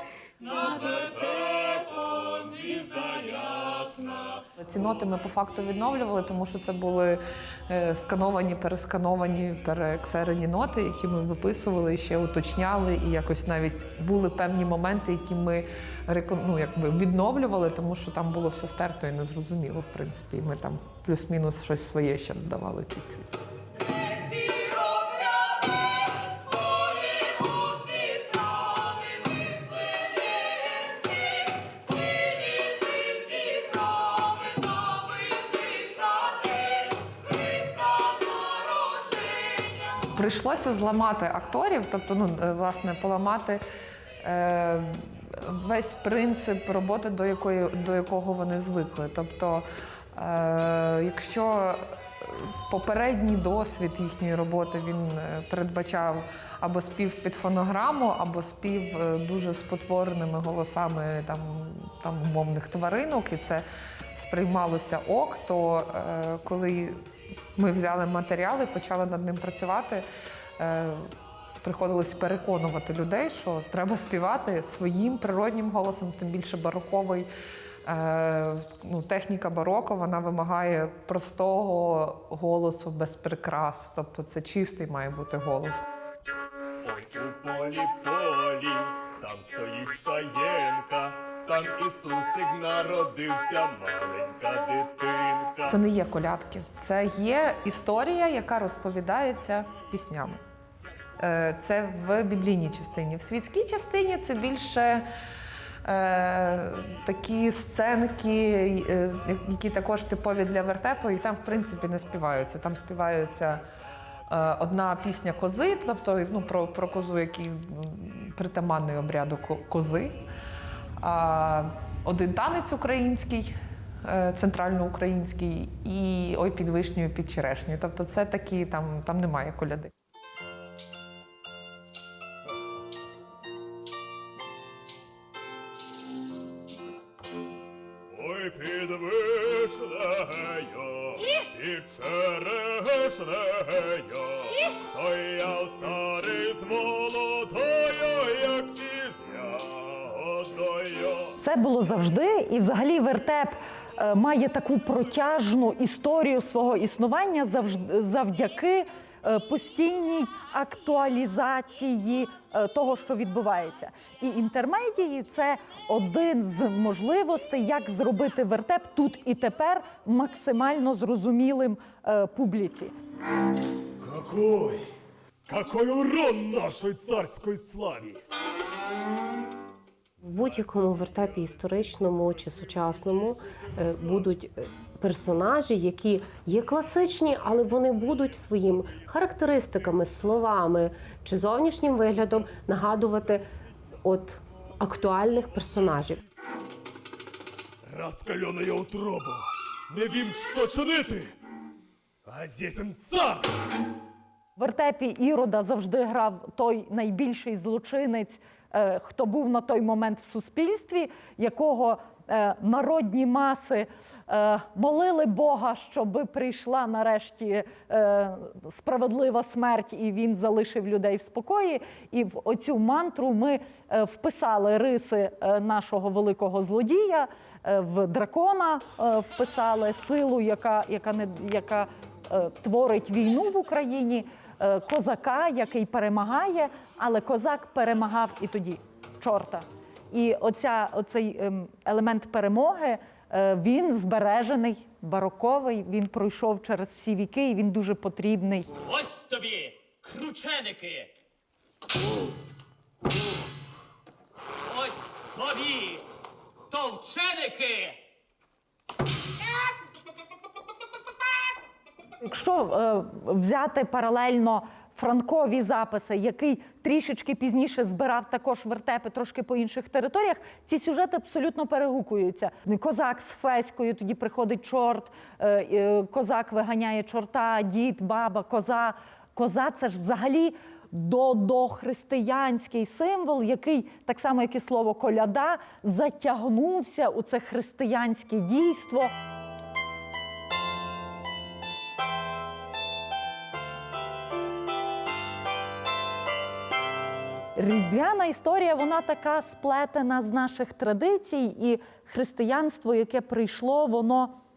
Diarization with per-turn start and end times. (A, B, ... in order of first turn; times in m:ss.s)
0:00.4-0:04.4 A
0:04.6-0:07.2 B
0:07.7-0:23.3 B
0:40.1-0:43.6 B
0:44.2-0:49.6 B
0:50.2-1:03.6 B
1:04.2-1:06.9 B
1:07.6-1:10.0 B
1:10.6-1:11.0 B
1:11.6-1:17.3 B
1:17.8-1:25.8 B
1:26.8-1:35.8 A
1:35.6-1:40.4 B
1:41.2-1:45.0 B
1:45.8-1:53.6 B
1:54.3-2:00.1 B
2:01.0-2:03.5 B
2:04.0-2:09.9 B
2:18.1-2:31.3 A
2:31.4-2:52.9 C
2:54.0-2:54.8 A
2:55.5-2:58.2 A
3:00.2-3:13.4 D
3:14.0-3:16.2 D
3:17.8-3:21.3 A
3:22.3-3:23.5 A
3:24.6-4:08.7 C
4:09.0-4:11.1 E
4:14.8-4:16.0 E
4:16.7-4:18.0 E
4:22.2-4:49.1 C
4:57.6-5:04.3 C